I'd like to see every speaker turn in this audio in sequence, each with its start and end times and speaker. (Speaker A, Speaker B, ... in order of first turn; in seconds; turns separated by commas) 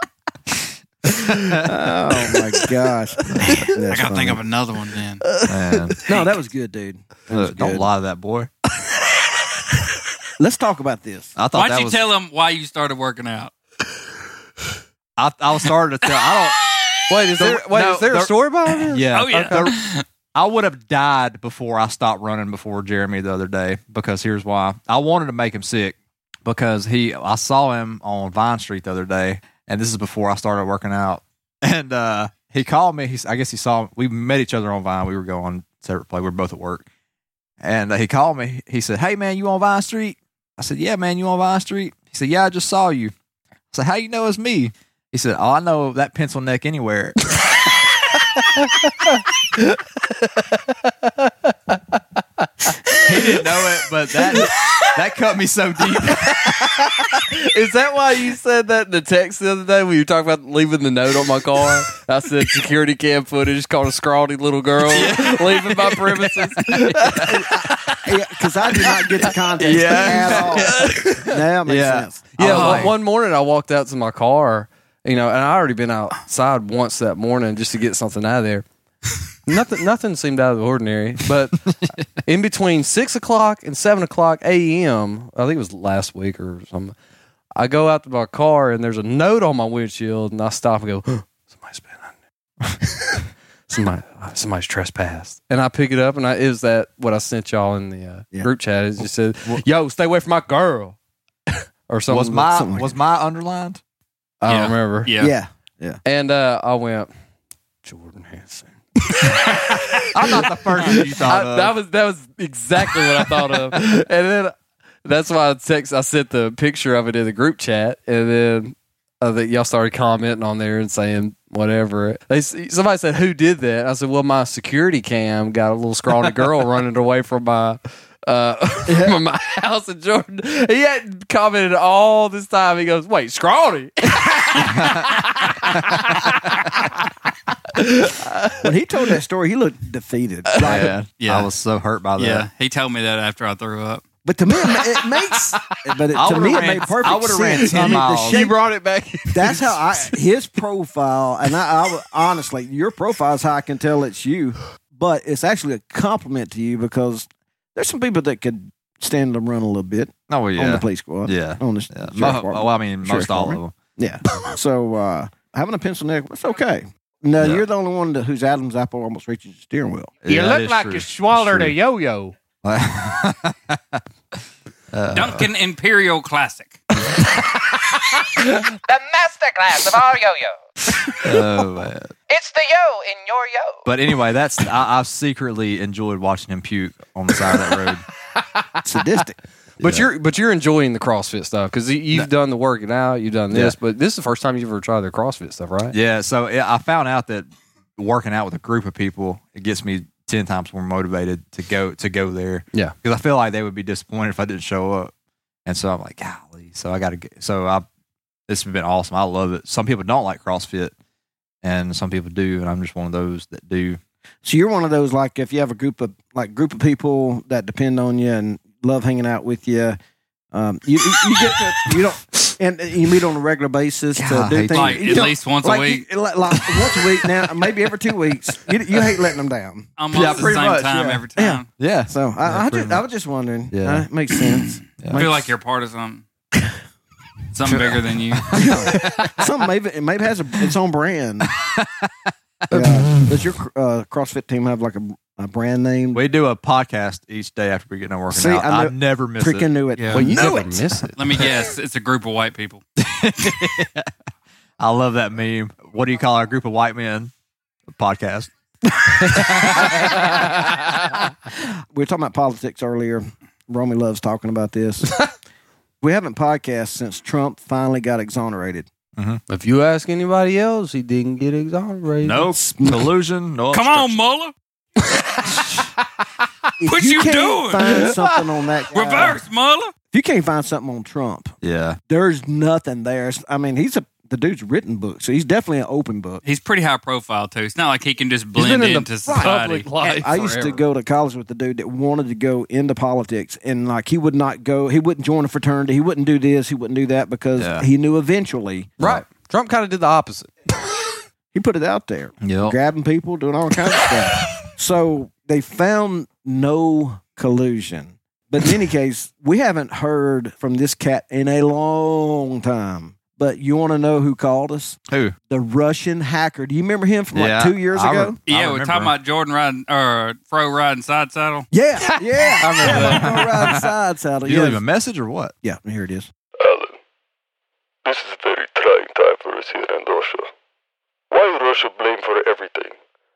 Speaker A: 1.3-1.7, Speaker B: 1.6-4.4, Speaker A: 3.3-3.7, Speaker C: 3.9-5.2, Speaker D: 5.2-5.9, Speaker A: 5.5-6.0, Speaker B: 6.0-7.8, Speaker A: 7.3-8.5, Speaker B: 10.4-11.3, Speaker A: 11.3-12.1, Speaker C: 11.5-13.5, Speaker A: 15.2-16.7, Speaker D: 17.1-19.7, Speaker A: 17.3-19.8, Speaker C: 19.1-20.0, Speaker A: 20.3-36.9, Speaker A: 37.6-43.1, Speaker A: 43.7-47.1, Speaker D: 49.0-52.0, Speaker D: 52.9-53.4, Speaker A: 53.0-57.2, Speaker D: 56.2-56.6, Speaker D: 57.1-67.4, Speaker A: 64.8-67.8, Speaker B: 68.0-72.9, Speaker A: 69.6-72.1, Speaker D: 69.8-71.3, Speaker D: 72.4-78.7, Speaker C: 72.4-72.9, Speaker D: 79.5-81.6, Speaker A: 81.7-82.0, Speaker D: 82.2-86.9, Speaker D: 87.5-92.1, Speaker D: 93.7-101.0, Speaker D: 101.9-102.5, Speaker A: 102.1-103.8, Speaker B: 102.4-102.9, Speaker D: 104.4-105.1, Speaker C: 104.5-105.3, Speaker B: 105.2-106.0, Speaker D: 106.0-107.1, Speaker D: 107.8-114.5, Speaker A: 110.1-111.8, Speaker D: 115.0-136.9, Speaker B: 128.9-129.2, Speaker A: 134.7-135.2, Speaker D: 137.7-138.7, Speaker B: 138.6-141.0, Speaker A: 140.6-142.5, Speaker C: 141.2-141.5, Speaker C: 142.2-144.0, Speaker B: 144.2-148.6, Speaker A: 146.1-148.4, Speaker D: 147.6-150.1, Speaker B: 149.3-170.1, Speaker A: 160.3-163.8, Speaker A: 167.4-167.7, Speaker A: 170.2-171.8, Speaker D: 170.3-172.3, Speaker A: 172.6-174.0, Speaker A: 174.9-175.5, Speaker C: 175.1-176.8, Speaker E: 178.9-180.3, Speaker D: 179.3-180.5, Speaker A: 181.2-182.1, Speaker E: 182.3-183.7, Speaker A: 183.8-188.0, Speaker B: 188.8-189.4, Speaker D: 189.8-195.9, Speaker A: 189.8-190.1, Speaker A: 193.5-193.8, Speaker A: 195.9-205.1, Speaker A: 205.7-207.8, Speaker A: 208.5-210.9, Speaker A: 211.6-214.0, Speaker B: 214.4-220.0, Speaker B: 220.5-230.5, Speaker A: 224.1-225.2, Speaker C: 224.7-226.1, Speaker C: 230.0-231.7, Speaker A: 230.1-231.2, Speaker B: 231.3-235.5, Speaker A: 231.8-233.0, Speaker A: 233.7-234.1, Speaker A: 235.0-235.2, Speaker C: 235.1-236.2, Speaker C: 237.5-238.6, Speaker A: 237.7-239.4, Speaker B: 238.5-241.5, Speaker A: 241.6-242.1, Speaker B: 242.7-246.2, Speaker A: 242.7-243.2, Speaker A: 246.1-249.7, Speaker B: 248.3-251.0, Speaker C: 250.0-250.2, Speaker D: 250.1-251.2, Speaker C: 251.2-252.8, Speaker A: 253.0-254.1, Speaker A: 254.8-257.3, Speaker A: 257.9-258.5, Speaker B: 259.0-260.1, Speaker A: 259.2-260.2, Speaker D: 260.1-260.7, Speaker B: 261.5-265.3, Speaker B: 266.0-268.9, Speaker A: 269.1-269.4, Speaker D: 269.5-272.5, Speaker A: 272.2-274.2, Speaker B: 272.5-273.1, Speaker C: 273.7-274.5, Speaker B: 276.8-279.4, Speaker C: 276.9-278.1, Speaker C: 278.9-279.9, Speaker B: 280.1-281.5, Speaker A: 281.6-282.0, Speaker B: 282.1-286.4, Speaker C: 286.4-289.9, Speaker D: 288.5-290.8, Speaker B: 289.4-298.9, Speaker A: 297.6-297.9, Speaker A: 299.0-299.2, Speaker D: 299.0-300.5, Speaker B: 301.5-315.0, Speaker A: 302.4-302.8, Speaker A: 315.1-315.3, Speaker B: 315.5-318.4, Speaker A: 317.3-319.1, Speaker C: 318.5-321.7, Speaker B: 321.7-324.8, Speaker D: 322.6-323.7, Speaker A: 322.8-323.9, Speaker A: 324.4-325.5, Speaker B: 325.6-326.3, Speaker F: 326.6-327.0, Speaker F: 328.0-330.5, Speaker F: 331.3-332.9